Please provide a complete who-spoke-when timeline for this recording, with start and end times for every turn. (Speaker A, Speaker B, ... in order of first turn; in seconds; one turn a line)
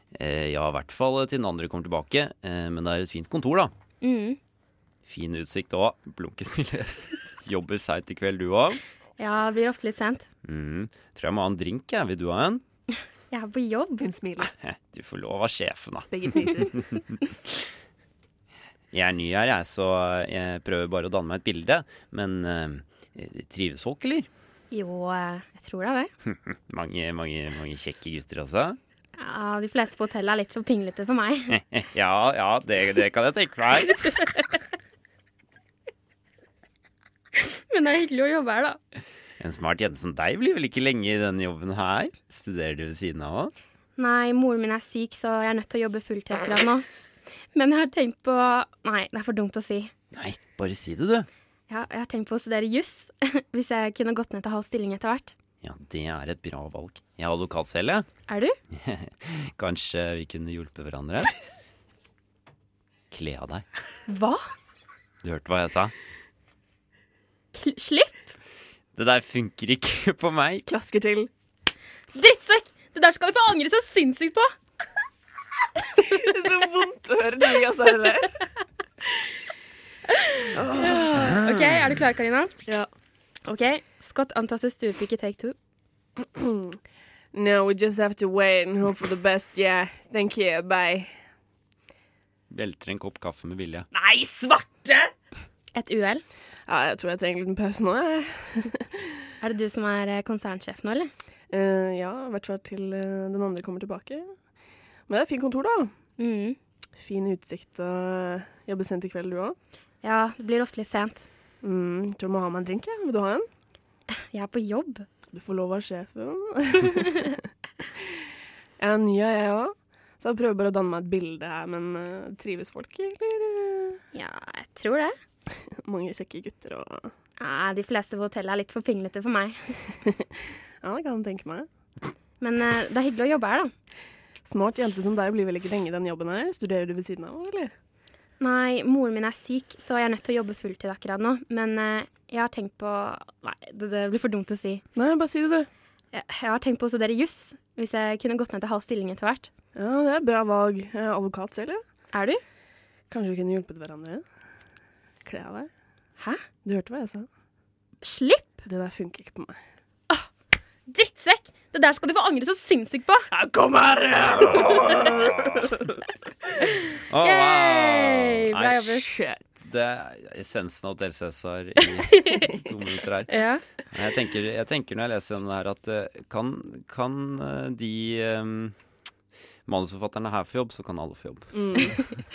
Speaker A: 0.1-3.7
Speaker B: 4.0-4.4
Speaker A: 5.0-8.8
Speaker B: 9.2-10.2
Speaker A: 10.4-12.6
Speaker B: 13.3-14.1
Speaker C: 14.0-14.5
Speaker A: 14.4-17.6
Speaker C: 16.1-16.8
Speaker A: 18.9-24.3
Speaker B: 24.7-26.1
Speaker A: 26.2-28.8
Speaker B: 29.2-31.6
Speaker A: 31.5-34.1
Speaker B: 37.4-38.8
Speaker A: 39.4-43.5
Speaker B: 44.0-46.9
Speaker B: 47.5-49.9
Speaker A: 50.1-51.3
Speaker B: 51.7-55.3
Speaker A: 55.6-58.1
Speaker B: 58.3-58.5
Speaker A: 58.7-61.3
Speaker A: 63.1-63.6
Speaker B: 64.1-64.5
Speaker A: 65.2-65.9
Speaker B: 67.5-68.3
Speaker A: 68.9-70.7
Speaker C: 70.7-71.3
Speaker B: 72.1-74.5
Speaker B: 76.0-76.3
Speaker C: 76.0-78.4
Speaker B: 80.1-82.5
Speaker C: 80.5-81.4
Speaker A: 81.2-82.0
Speaker B: 83.4-85.5
Speaker C: 86.2-86.8
Speaker C: 87.3-91.2
Speaker A: 92.5-93.9
Speaker C: 93.9-95.1
Speaker B: 95.7-96.2
Speaker C: 96.7-99.1
Speaker B: 99.4-101.1
Speaker C: 101.5-104.3
Speaker C: 105.1-105.9
Speaker B: 106.2-106.6
Speaker C: 107.0-109.5
Speaker B: 110.0-111.2
Speaker C: 111.6-113.5
Speaker B: 114.3-115.0
Speaker C: 115.3-118.2
Speaker C: 118.8-124.0
Speaker B: 124.1-125.2
Speaker C: 125.8-127.1
Speaker B: 127.4-129.8
Speaker C: 130.8-131.7
Speaker B: 132.4-133.7
Speaker C: 134.4-137.7
Speaker B: 138.4-144.8
Speaker C: 144.9-145.7
Speaker B: 146.1-149.5
Speaker C: 149.7-151.8
Speaker B: 152.1-152.4
Speaker C: 153.1-154.2
Speaker C: 155.2-155.7
Speaker C: 156.6-157.3
Speaker B: 158.0-158.6
Speaker C: 158.7-159.6
Speaker B: 160.9-163.3
Speaker C: 163.3-166.0
Speaker A: 164.9-165.6
Speaker A: 167.1-169.0
Speaker B: 167.2-169.1
Speaker C: 168.8-169.7
Speaker A: 169.6-178.8
Speaker B: 172.1-172.5
Speaker B: 173.3-173.6
Speaker A: 179.7-182.0
Speaker C: 181.5-182.0
Speaker B: 181.8-182.2